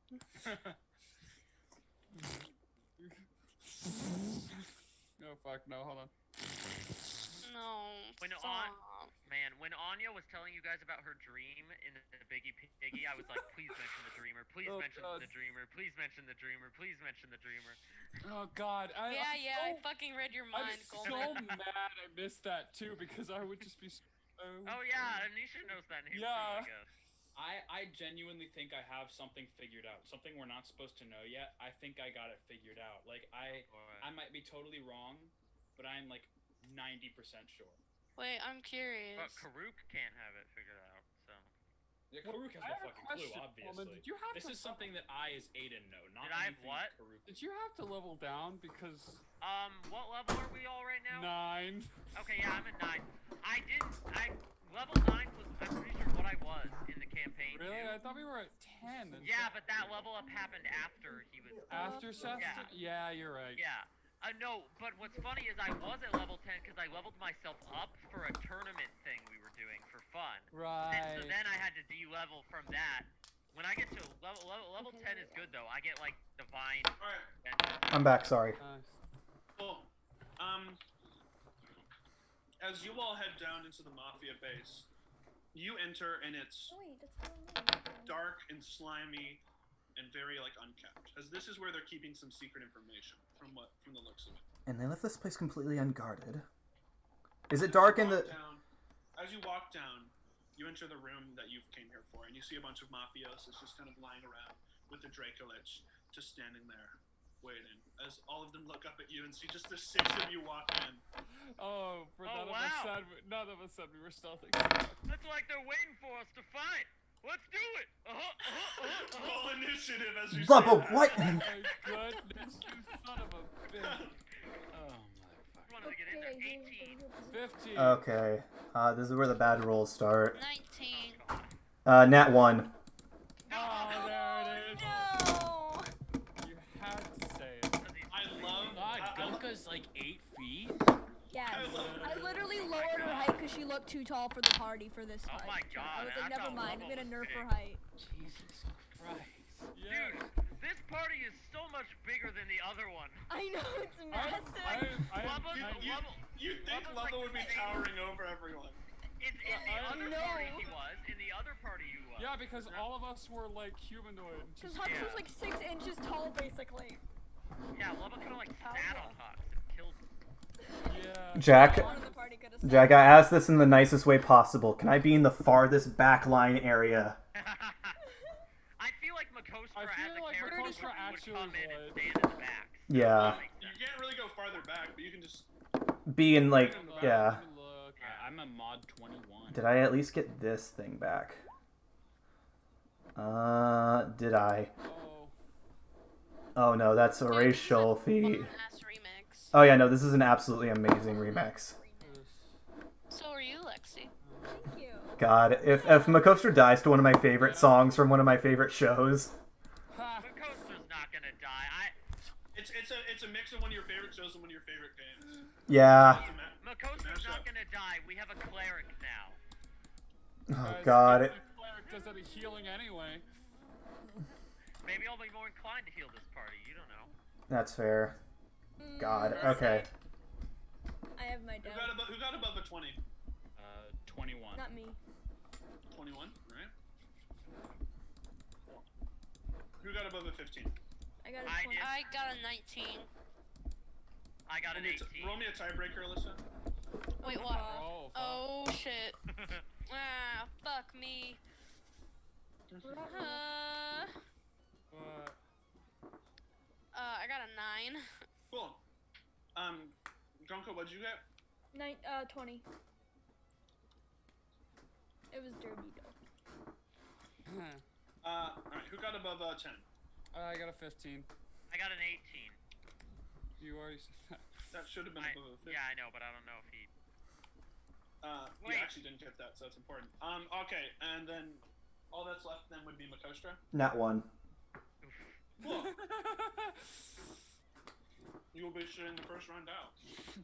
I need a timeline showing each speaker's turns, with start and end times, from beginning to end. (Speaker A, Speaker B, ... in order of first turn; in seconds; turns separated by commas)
Speaker A: 0.4-0.7, Speaker B: 2.2-2.4, Speaker B: 3.0-3.2, Speaker B: 4.0-4.4, Speaker B: 5.2-6.1, Speaker C: 7.4-9.1, Speaker D: 8.2-8.7, Speaker D: 9.2-17.8, Speaker B: 14.6-15.3, Speaker B: 18.2-19.9, Speaker C: 19.1-21.4, Speaker B: 20.5-25.3, Speaker D: 21.1-21.5, Speaker D: 24.6-26.9, Speaker B: 26.1-26.7, Speaker A: 27.3-37.8, Speaker D: 33.5-34.1, Speaker C: 38.1-39.5, Speaker D: 39.1-41.5, Speaker A: 42.1-47.3, Speaker B: 42.2-44.9, Speaker D: 46.2-47.0, Speaker B: 47.2-49.2, Speaker D: 49.4-51.3, Speaker B: 51.1-51.9, Speaker D: 52.1-58.0, Speaker B: 57.5-59.6, Speaker D: 59.2-62.6, Speaker E: 61.7-62.7, Speaker B: 61.7-63.6, Speaker D: 63.5-77.8, Speaker B: 70.5-71.4, Speaker E: 74.8-75.5, Speaker F: 77.0-77.3, Speaker G: 77.9-78.6, Speaker B: 78.6-79.0, Speaker F: 79.5-80.8, Speaker F: 82.6-84.9, Speaker F: 85.5-86.8, Speaker E: 86.7-88.3, Speaker F: 88.0-89.4, Speaker F: 89.9-94.4, Speaker G: 94.7-96.4, Speaker G: 97.5-98.3, Speaker F: 97.5-98.6, Speaker F: 99.2-111.0, Speaker B: 111.5-115.0, Speaker D: 112.2-113.0, Speaker D: 115.1-119.5, Speaker F: 118.4-121.4, Speaker G: 120.3-121.4, Speaker D: 121.1-122.0, Speaker B: 121.4-124.1, Speaker F: 123.7-124.1, Speaker A: 124.7-126.0, Speaker D: 125.7-127.0, Speaker E: 125.8-127.7, Speaker B: 127.3-128.0, Speaker G: 127.8-130.4, Speaker C: 130.3-131.2, Speaker D: 130.9-131.6, Speaker G: 131.8-132.7, Speaker D: 133.5-134.8, Speaker B: 133.5-135.2, Speaker E: 134.1-135.8, Speaker A: 134.8-135.5, Speaker B: 136.4-137.8, Speaker D: 137.8-139.2, Speaker F: 138.1-139.4, Speaker A: 138.7-140.8, Speaker E: 141.3-147.8, Speaker F: 141.4-142.4, Speaker B: 141.7-142.6, Speaker D: 142.5-143.4, Speaker D: 145.2-147.5, Speaker A: 148.0-149.7, Speaker B: 149.7-150.3, Speaker D: 149.9-153.2, Speaker E: 153.3-155.2, Speaker B: 154.1-156.8, Speaker D: 155.1-157.9, Speaker F: 155.5-158.8, Speaker D: 159.2-162.3, Speaker E: 159.4-160.7, Speaker B: 159.6-160.1, Speaker B: 162.2-164.8, Speaker F: 162.6-162.9, Speaker E: 164.6-167.0, Speaker D: 164.8-165.3, Speaker D: 167.7-170.0, Speaker E: 168.6-169.2, Speaker B: 170.9-172.3, Speaker G: 171.3-171.9, Speaker E: 171.5-173.3, Speaker G: 172.6-177.2, Speaker D: 177.3-178.0, Speaker D: 178.8-183.7, Speaker B: 179.7-182.1, Speaker G: 182.9-183.4, Speaker F: 182.9-185.5, Speaker G: 186.1-187.4, Speaker F: 186.4-187.3, Speaker B: 186.6-188.0, Speaker D: 188.0-188.3, Speaker A: 188.0-189.7, Speaker G: 189.5-191.4, Speaker G: 193.2-194.7, Speaker B: 194.8-195.3, Speaker G: 196.6-198.5, Speaker C: 197.2-199.5, Speaker G: 199.5-201.7, Speaker E: 201.0-202.2, Speaker B: 202.0-202.6, Speaker C: 203.1-204.1, Speaker B: 204.2-204.8, Speaker E: 204.5-206.3, Speaker G: 205.2-209.3, Speaker B: 207.3-207.8, Speaker B: 209.9-210.3, Speaker D: 210.2-211.9, Speaker F: 212.5-217.5, Speaker G: 215.7-216.2, Speaker D: 216.6-219.4, Speaker G: 220.5-221.3, Speaker B: 220.6-223.2, Speaker D: 224.8-227.1, Speaker G: 227.5-228.2, Speaker E: 228.8-229.9, Speaker G: 229.0-229.9, Speaker E: 231.2-232.0, Speaker F: 231.6-233.0, Speaker A: 233.6-234.7, Speaker E: 234.5-235.0, Speaker F: 235.9-236.7, Speaker F: 239.8-240.8, Speaker E: 241.2-242.0, Speaker D: 241.4-242.0, Speaker C: 241.8-243.1, Speaker D: 244.5-245.5, Speaker F: 244.7-246.4, Speaker E: 247.2-247.9, Speaker C: 247.2-249.2, Speaker B: 247.6-248.5, Speaker D: 249.3-249.6, Speaker C: 249.9-251.4, Speaker F: 252.7-253.0, Speaker E: 252.8-253.4, Speaker C: 253.0-254.1, Speaker B: 254.9-255.4, Speaker C: 256.9-258.0, Speaker F: 258.5-258.8, Speaker F: 259.5-261.2, Speaker E: 261.7-262.6, Speaker E: 265.3-266.1, Speaker B: 267.4-267.8, Speaker F: 268.2-269.9, Speaker B: 270.3-271.3, Speaker D: 271.7-272.6, Speaker B: 273.6-274.4, Speaker F: 274.7-275.8, Speaker D: 275.2-276.9, Speaker F: 278.2-283.6, Speaker D: 278.6-278.9, Speaker G: 283.7-284.3, Speaker D: 285.0-285.4, Speaker B: 285.6-286.8, Speaker F: 285.6-285.9, Speaker F: 288.5-289.9